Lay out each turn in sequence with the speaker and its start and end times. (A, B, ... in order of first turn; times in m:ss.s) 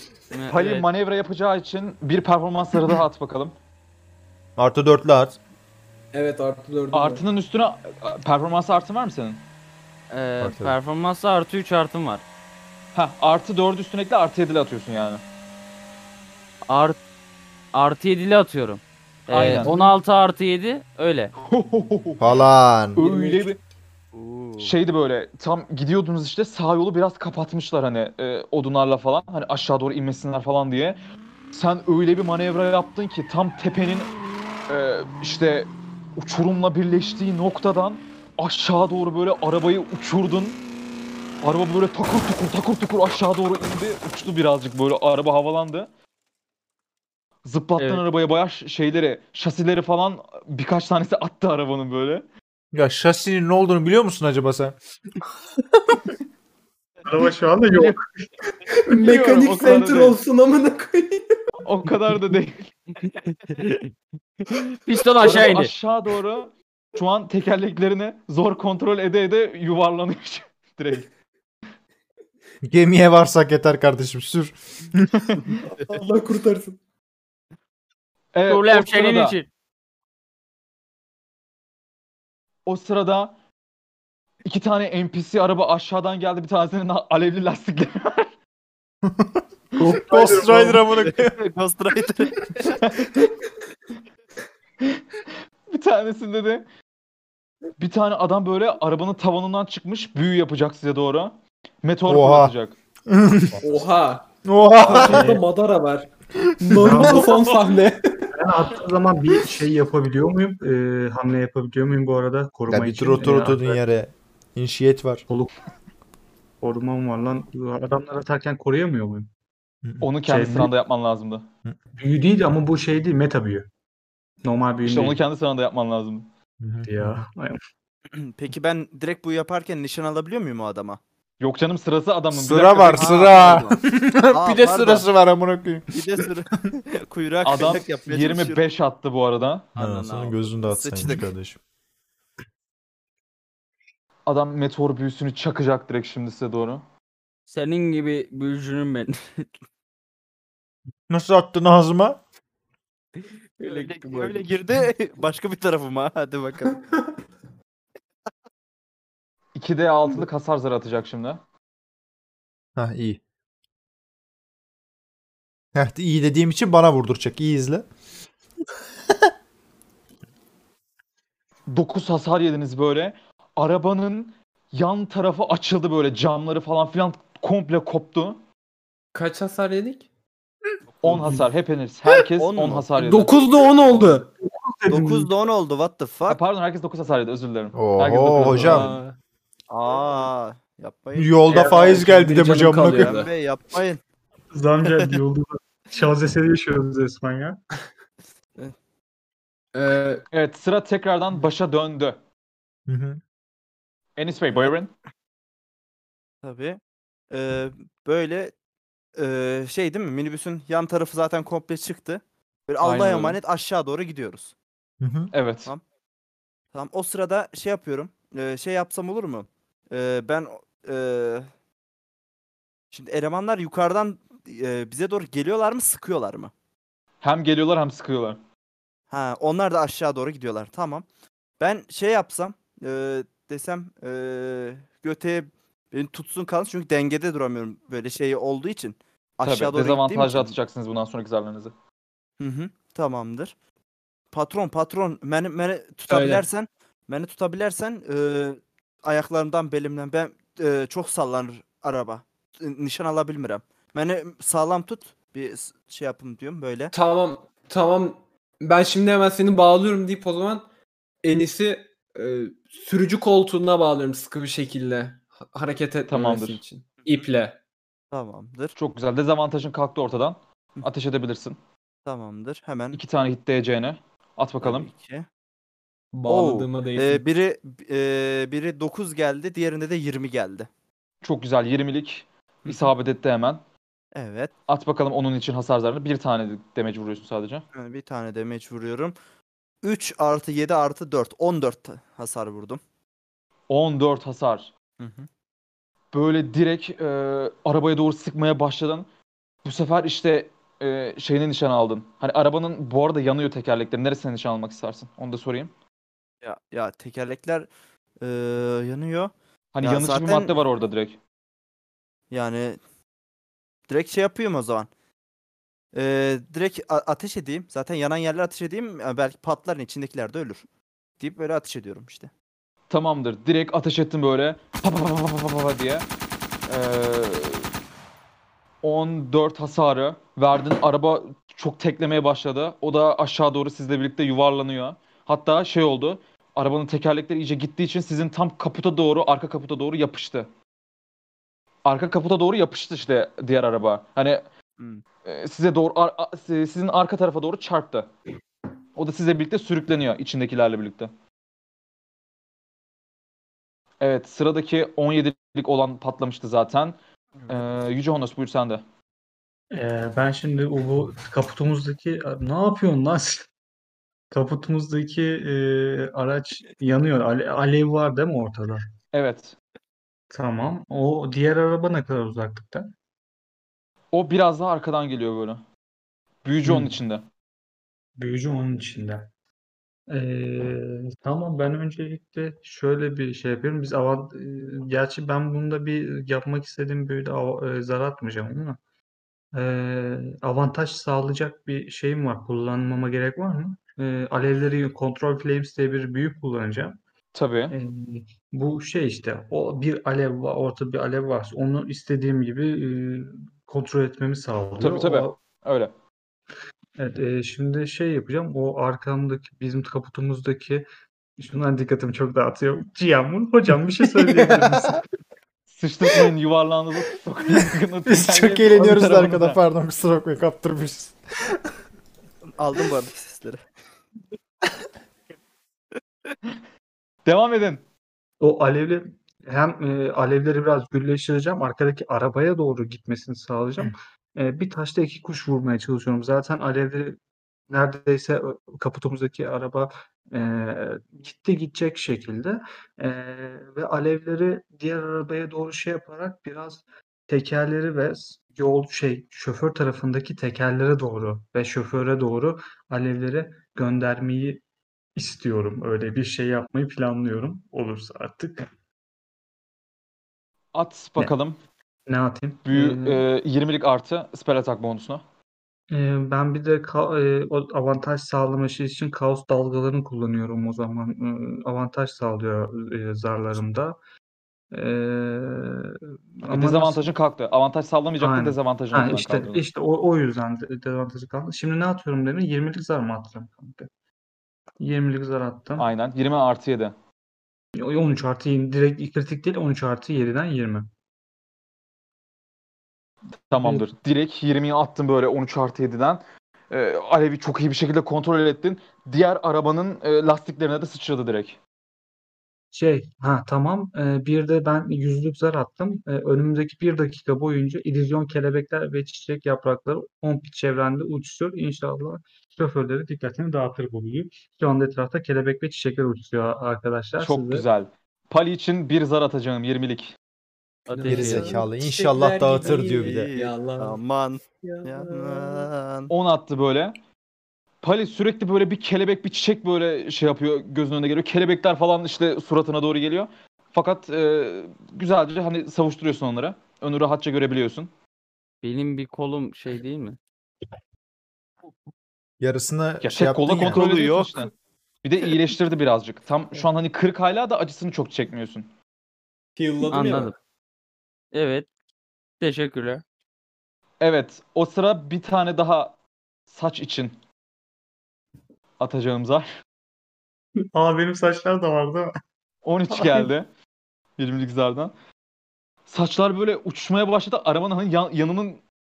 0:00.3-0:00.8 A
0:00.5-0:03.6 B
0:04.6-0:05.4 C
0:06.1-0:07.2 D
0:06.9-0:09.4 B
0:10.1-0:12.2 A
0:10.4-0:10.8 C
0:12.9-0:15.2 B
0:16.7-0:17.0 A
0:17.7-0:21.3 A
0:19.3-0:19.8 B
0:21.4-0:22.4 B
0:22.2-0:23.0 C
0:23.0-0:23.6 B
0:23.0-0:23.5 D
0:24.1-0:24.7 E
0:24.6-0:31.0 B
0:31.5-0:34.1 B
0:34.7-0:40.6 B
0:41.4-0:45.9 B
0:47.4-0:52.2 B
0:52.7-0:54.8 C
0:57.1-0:58.0 F
0:58.7-1:01.4 D
0:58.9-1:00.2 B
1:01.6-1:02.7 B
1:03.3-1:03.9 A
1:04.5-1:05.7 A
1:05.2-1:11.1 B
1:12.6-1:15.4 C
1:15.8-1:16.8 D
1:18.3-1:19.4 B
1:18.5-1:19.5 A
1:22.7-1:23.4 B
1:24.5-1:28.3 B
1:29.0-1:31.4 C
1:29.8-1:30.8 F
1:30.9-1:32.8 E
1:32.7-1:33.1 B
1:35.7-1:36.7 B
1:37.8-1:42.8 B
1:42.1-1:42.6 C
1:43.1-1:43.6 C
1:43.6-1:44.3 D
1:44.4-1:45.4 C
1:44.8-1:48.3 D
1:44.9-1:45.4 F
1:46.5-1:47.2 C
1:46.8-1:47.5 F
1:48.3-1:53.8 F
1:52.7-1:55.2 C
1:55.3-1:55.5 F
1:56.6-1:59.3 F
1:59.8-2:00.1 C
2:00.0-2:01.5 B
2:00.3-2:00.7 F
2:02.0-2:03.7 F
2:04.4-2:05.2 F
2:04.8-2:06.3 B
2:06.6-2:07.2 C
2:06.8-2:07.6 F
2:08.1-2:11.0 E
2:11.4-2:13.4 B
2:12.3-2:16.3 C
2:12.9-2:13.8 E
2:14.3-2:15.1 E
2:15.9-2:18.6 E
2:17.4-2:19.7 B
2:19.8-2:21.3 E
2:19.8-2:21.6 C
2:24.3-2:26.8 B
2:27.5-2:29.5 A
2:31.1-2:32.2 C
2:33.6-2:36.8 E
2:33.7-2:34.4 D
2:39.6-2:41.4 B
2:42.8-2:43.2 C
2:45.8-2:47.9 C
2:51.7-2:58.4 B
2:59.1-3:00.1 D
3:01.0-3:03.3 B
3:02.4-3:02.9 E
3:03.0-3:04.3 D
3:04.4-3:05.3 F
3:04.9-3:06.4 E
3:06.3-3:08.9 B
3:07.7-3:08.9 C
3:08.5-3:09.2 D
3:09.7-3:12.0 E
3:11.2-3:13.2 C
3:11.5-3:13.3 D
3:12.6-3:14.0 E
3:14.5-3:17.6 F
3:19.7-3:20.2 D
3:20.3-3:22.2 B
3:22.9-3:23.2 C
3:24.2-3:24.9 B
3:26.4-3:26.8 E
3:27.3-3:28.5 E
3:29.2-3:34.5 E
3:32.8-3:33.4 B
3:35.0-3:35.3 C
3:35.3-3:35.7 B
3:36.7-3:41.5 E
3:42.9-3:46.5 E
3:47.2-3:48.4 B
3:49.1-3:51.0 E
3:51.6-4:00.6 E
3:59.4-4:01.7 B
4:02.4-4:03.5 E
4:04.3-4:16.9 E
4:06.1-4:06.4 D
4:16.9-4:20.6 D
4:21.2-4:27.6 D
4:26.1-4:26.6 B
4:28.1-4:28.7 E
4:28.8-4:31.6 B
4:32.1-4:33.0 E
4:32.9-4:34.9 B
4:34.6-4:35.3 E
4:36.1-4:37.2 D
4:36.3-4:40.7 E
4:41.2-4:43.6 B
4:42.6-4:42.9 E
4:44.1-4:44.5 E
4:44.7-4:47.6 B
4:47.8-4:49.2 E
4:49.8-4:52.8 E
4:53.7-4:54.7 B
4:55.0-4:55.3 E
4:56.1-4:59.1 B
4:59.6-5:05.7 B
5:06.4-5:07.7 E
5:08.2-5:10.6 E
5:09.7-5:11.2 B
5:12.3-5:12.8 E
5:13.9-5:14.9 E
5:15.9-5:20.6 E
5:21.2-5:22.3 E
5:22.9-5:26.1 B
5:26.7-5:27.7 B
5:28.8-5:40.5 B
5:41.8-5:44.4 B
5:45.2-5:48.1 B
5:49.0-5:51.1 B
5:54.0-5:57.0 B
5:57.5-5:58.8 B
5:59.7-6:03.5 F
6:04.3-6:08.9 F
6:09.1-6:09.6 B
6:10.3-6:12.9 F
6:14.1-6:15.6 B
6:16.4-6:17.3 B
6:16.6-6:17.0 F
6:18.2-6:19.3 F
6:20.1-6:28.8 F
6:29.5-6:37.0 F
6:37.3-6:37.8 B
6:37.7-6:45.4 F
6:44.8-6:45.9 B
6:47.0-6:50.9 F
6:51.4-6:55.0 F
6:54.4-6:54.7 C
6:55.7-6:59.6 B
6:58.1-7:01.6 C
7:02.5-7:03.6 E
7:07.3-7:07.8 B
7:08.4-7:17.2 F
7:17.7-7:34.6 F
7:35.2-7:38.7 F
7:40.8-7:41.6 B
7:42.1-7:43.2 F
7:42.7-7:45.2 B
7:45.9-7:54.0 F
7:54.7-7:57.1 F
7:56.5-7:59.6 B
7:58.2-8:03.9 F
8:04.8-8:05.9 F
8:05.8-8:07.0 B
8:07.8-8:10.9 F
8:13.5-8:21.6 B
8:13.6-8:13.9 F
8:22.7-8:37.7 F
8:37.2-8:40.2 B
8:40.9-8:41.5 A
8:40.9-8:45.7 D
8:41.1-8:43.3 C
8:43.0-8:46.1 E
8:46.1-8:47.0 B
8:47.8-8:57.9 B
8:58.6-9:00.2 A
9:02.4-9:03.8 C
9:03.0-9:04.5 B
9:03.7-9:04.5 E
9:05.0-9:08.7 B
9:09.6-9:10.3 D
9:09.9-9:10.3 A
9:11.3-9:11.7 A
9:12.4-9:13.0 A
9:14.0-9:16.0 B
9:16.5-9:17.2 B
9:18.8-9:19.5 B
9:20.7-9:22.1 F
9:22.6-9:23.5 B
9:22.9-9:23.3 F
9:24.2-9:24.9 B
9:25.9-9:28.6 B